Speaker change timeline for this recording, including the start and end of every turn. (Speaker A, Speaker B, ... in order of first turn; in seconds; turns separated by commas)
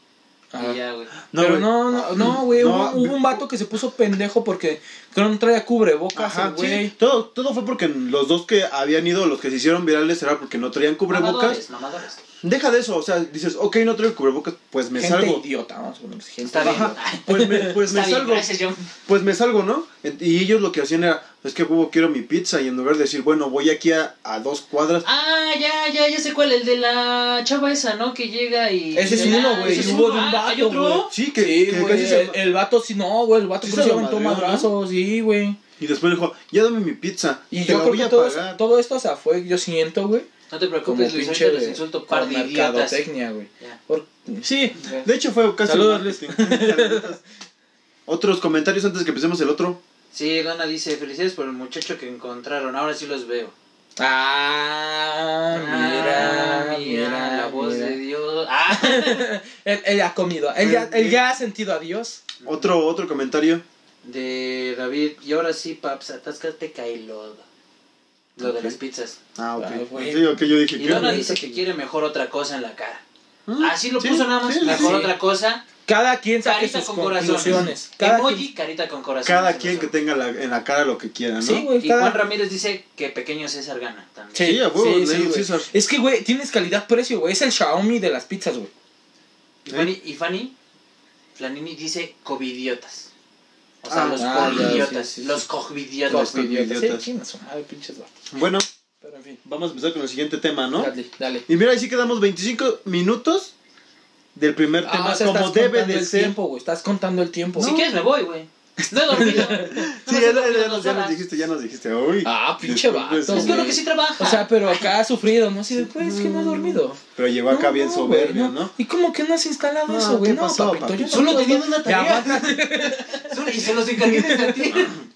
Speaker A: 0.5-0.8, Speaker B: 0.6-1.1, Speaker C: 1.3-3.4, Speaker A: 1.3-6.9, Speaker C: 6.1-11.6, Speaker B: 11.1-12.2, Speaker C: 12.4-15.4, Speaker A: 14.9-17.8, Speaker B: 16.5-18.9, Speaker C: 16.6-18.5, Speaker C: 19.1-25.1, Speaker B: 25.0-31.1, Speaker A: 28.9-35.6, Speaker C: 29.0-30.3, Speaker C: 31.1-32.4, Speaker C: 33.6-34.7, Speaker C: 35.8-38.6, Speaker A: 37.5-40.3, Speaker B: 40.5-43.0, Speaker A: 40.8-45.1, Speaker C: 44.8-47.2, Speaker A: 45.6-47.2, Speaker C: 48.1-49.8, Speaker B: 50.1-53.5, Speaker A: 54.0-58.0, Speaker B: 55.5-59.3, Speaker A: 58.7-62.2, Speaker C: 60.6-61.2, Speaker B: 62.4-62.7, Speaker C: 62.4-63.6, Speaker B: 64.0-67.4, Speaker B: 68.4-69.2, Speaker C: 68.4-68.8, Speaker C: 69.3-71.3, Speaker A: 69.6-71.6, Speaker B: 70.8-73.0, Speaker C: 73.5-75.0, Speaker B: 73.6-75.6, Speaker A: 74.6-75.1, Speaker A: 75.8-78.4, Speaker B: 76.4-80.0, Speaker C: 77.2-77.7, Speaker C: 79.2-81.7, Speaker A: 81.4-82.2, Speaker B: 81.8-84.6, Speaker A: 84.3-88.7, Speaker C: 84.4-85.7, Speaker B: 89.6-90.5, Speaker B: 91.3-93.1, Speaker B: 93.8-96.3, Speaker C: 93.9-94.9, Speaker A: 94.2-95.4, Speaker C: 96.1-97.0, Speaker A: 96.1-98.1, Speaker C: 98.3-98.7, Speaker A: 99.0-99.4, Speaker C: 99.4-100.9, Speaker A: 100.8-101.4, Speaker C: 101.5-103.5, Speaker C: 104.3-106.3, Speaker A: 104.8-107.8, Speaker B: 107.6-111.2, Speaker C: 107.6-107.9, Speaker C: 109.0-113.8, Speaker A: 109.1-109.8, Speaker A: 112.2-124.8, Speaker B: 113.3-114.8, Speaker C: 115.7-118.7, Speaker C: 119.9-122.4, Speaker B: 121.1-125.0